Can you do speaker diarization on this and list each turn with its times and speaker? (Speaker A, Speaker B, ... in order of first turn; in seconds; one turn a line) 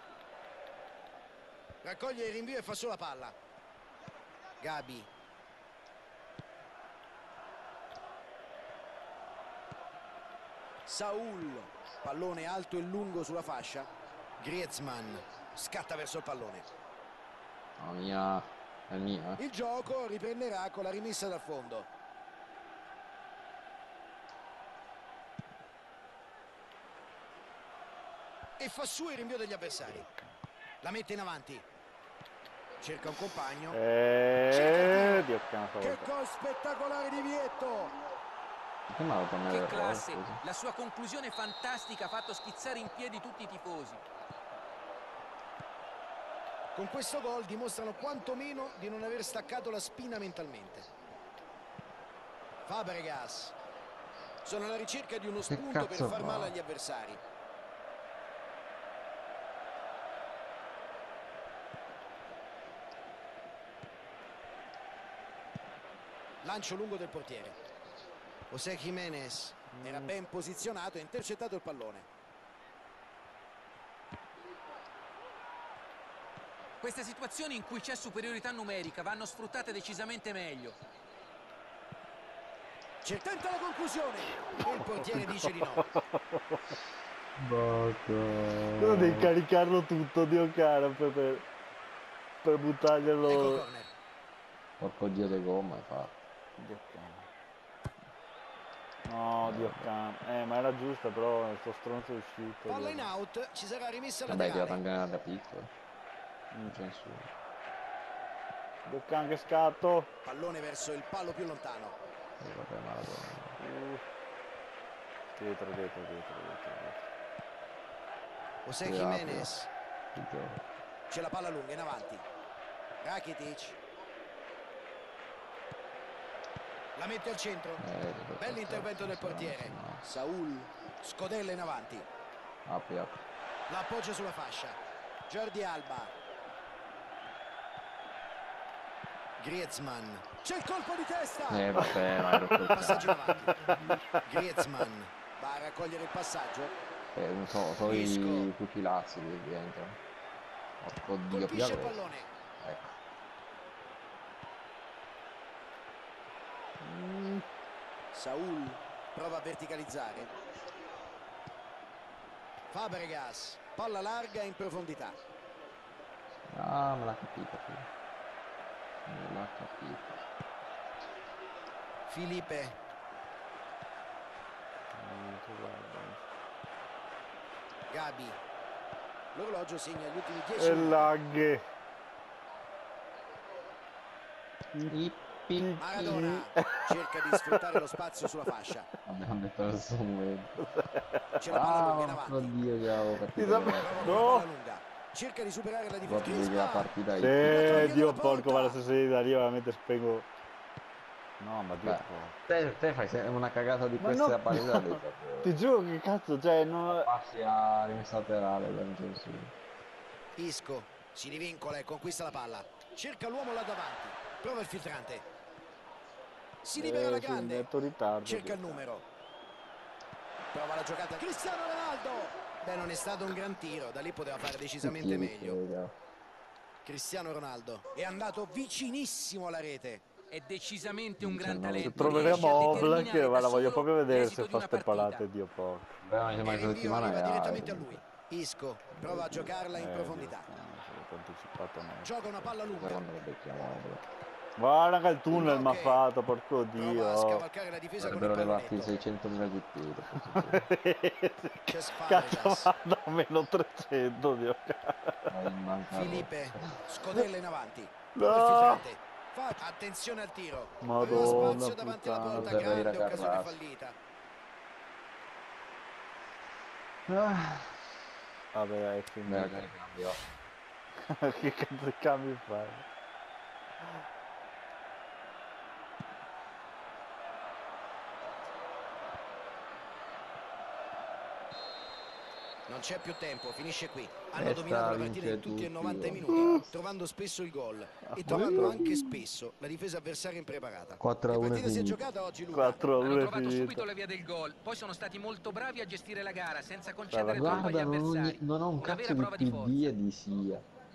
Speaker A: 1.8-3.3
Speaker A: 4.6-5.1
Speaker A: 10.8-16.7
Speaker B: 17.8-19.4
Speaker A: 19.4-21.9
Speaker A: 28.6-30.0
Speaker C: 29.9-30.3
Speaker A: 30.8-31.6
Speaker A: 32.8-33.8
Speaker C: 33.7-36.1
Speaker A: 34.5-35.3
Speaker A: 35.8-37.9
Speaker B: 38.9-40.4
Speaker D: 39.4-44.0
Speaker A: 46.7-50.9
Speaker A: 52.6-53.5
Speaker A: 54.4-57.2
Speaker B: 55.4-56.5
Speaker A: 66.4-67.6
Speaker A: 68.5-72.0
Speaker C: 69.8-70.1
Speaker D: 76.8-80.8
Speaker A: 83.0-85.8
Speaker C: 84.5-86.0
Speaker B: 87.4-89.3
Speaker C: 88.8-91.4
Speaker C: 92.4-93.6
Speaker A: 93.2-93.9
Speaker B: 94.8-96.2
Speaker C: 96.6-97.2
Speaker C: 99.0-103.1
Speaker B: 99.4-99.9
Speaker A: 102.7-104.8
Speaker B: 104.2-105.7
Speaker C: 106.5-106.8
Speaker B: 106.6-107.3
Speaker C: 108.8-110.1
Speaker A: 110.2-112.0
Speaker B: 112.4-113.5
Speaker C: 113.6-114.0
Speaker C: 115.3-117.0
Speaker A: 118.6-119.7
Speaker B: 118.8-119.5
Speaker B: 120.1-120.6
Speaker A: 121.1-122.2
Speaker A: 123.0-123.8
Speaker A: 126.9-127.8
Speaker B: 127.8-130.0
Speaker A: 128.4-132.1
Speaker B: 132.7-133.2
Speaker A: 133.7-134.8
Speaker A: 135.3-136.1
Speaker A: 139.4-141.8
Speaker B: 141.5-144.1
Speaker A: 142.6-143.5
Speaker C: 142.8-143.7
Speaker A: 144.2-146.8
Speaker B: 147.1-150.0
Speaker A: 147.8-148.5
Speaker B: 150.8-152.0
Speaker A: 151.3-152.3
Speaker B: 152.6-153.0
Speaker C: 156.8-157.4
Speaker A: 158.1-160.3
Speaker A: 162.7-165.2
Speaker B: 166.5-167.9
Speaker B: 169.1-170.2
Speaker A: 172.1-172.8
Speaker C: 174.9-176.2
Speaker A: 177.9-178.4
Speaker A: 179.3-181.1
Speaker C: 180.6-181.6
Speaker C: 184.7-185.0
Speaker B: 184.9-186.3
Speaker C: 185.5-187.7
Speaker A: 185.8-188.9
Speaker B: 189.0-190.6
Speaker C: 190.6-191.1
Speaker A: 191.3-192.6
Speaker B: 191.5-194.3
Speaker C: 193.3-194.5
Speaker A: 193.8-196.9
Speaker B: 196.0-198.0
Speaker C: 197.1-200.3
Speaker A: 197.4-198.8
Speaker C: 201.4-202.7
Speaker B: 201.8-205.5
Speaker C: 204.0-207.1
Speaker B: 207.0-209.5
Speaker A: 210.3-215.2
Speaker A: 216.6-217.7
Speaker C: 216.8-218.9
Speaker A: 218.2-219.0
Speaker A: 220.5-225.6
Speaker B: 224.8-225.9
Speaker A: 226.8-230.0
Speaker D: 230.3-235.2
Speaker B: 231.2-233.1
Speaker C: 231.8-235.9
Speaker B: 236.0-238.0
Speaker A: 236.4-240.5
Speaker B: 238.9-239.5
Speaker C: 239.7-242.6
Speaker A: 242.0-243.0
Speaker B: 242.7-244.0
Speaker C: 244.6-247.4
Speaker A: 245.3-246.0
Speaker A: 246.7-248.9
Speaker B: 248.0-250.7
Speaker C: 250.1-255.3
Speaker A: 251.7-252.7
Speaker B: 255.3-256.6
Speaker A: 255.9-263.9
Speaker C: 258.1-258.9
Speaker C: 260.8-262.9
Speaker B: 261.1-261.6
Speaker B: 262.3-263.6
Speaker C: 267.1-267.8
Speaker C: 268.5-269.7
Speaker B: 269.2-270.2
Speaker C: 271.1-272.8
Speaker A: 282.7-292.9
Speaker B: 284.3-286.7
Speaker C: 286.3-286.5
Speaker C: 288.1-289.2
Speaker B: 288.4-288.9
Speaker B: 291.0-292.0
Speaker C: 292.5-293.9
Speaker D: 293.0-299.9
Speaker C: 297.1-297.8
Speaker B: 297.3-300.6